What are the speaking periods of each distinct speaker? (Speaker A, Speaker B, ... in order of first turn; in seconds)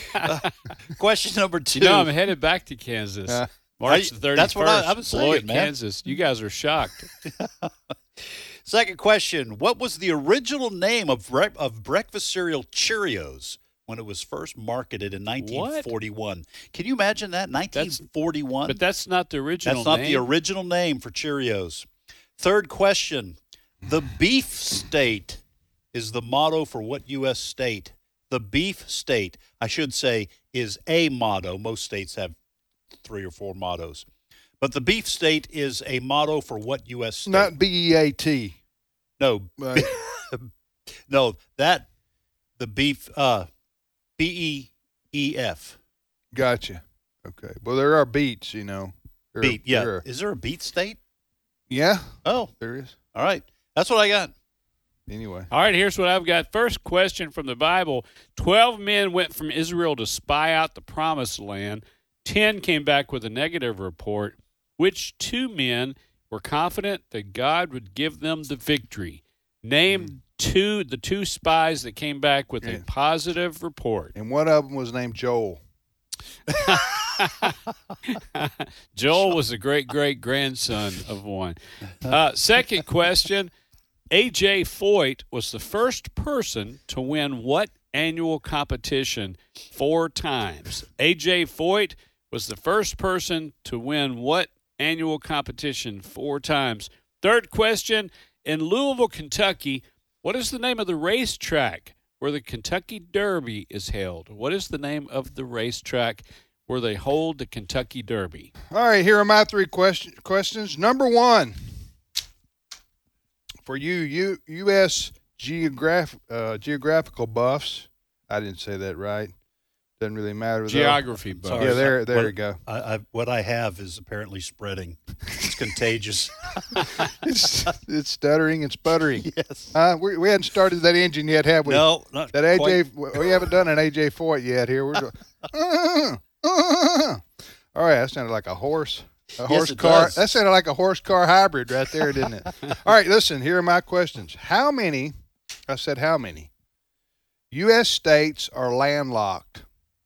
Speaker A: 0.1-0.5, 1.7-7.1, 15.4-15.9, 17.7-18.0, 18.6-20.3, 55.5-74.1, 76.6-77.5, 78.1-83.5, 84.1-108.5, 120.7-121.9
Speaker B: 0.2-2.1, 3.8-5.7, 7.2-18.8, 19.6-25.4, 25.9-32.3, 33.0-34.0, 34.6-37.5, 39.2-40.5, 41.1-41.9, 42.6-43.5, 44.2-45.8, 49.4-51.0, 52.2-52.5, 53.1-54.3, 121.3-127.1, 129.2-129.8, 131.7-133.4, 139.4-140.4
Speaker C: 37.2-38.6, 39.6-39.9, 46.3-50.0, 51.7-53.0, 55.1-55.5, 74.1-75.6, 108.7-111.6, 113.6-119.3, 120.0-122.6, 127.2-145.1, 145.7-146.5, 147.5-149.7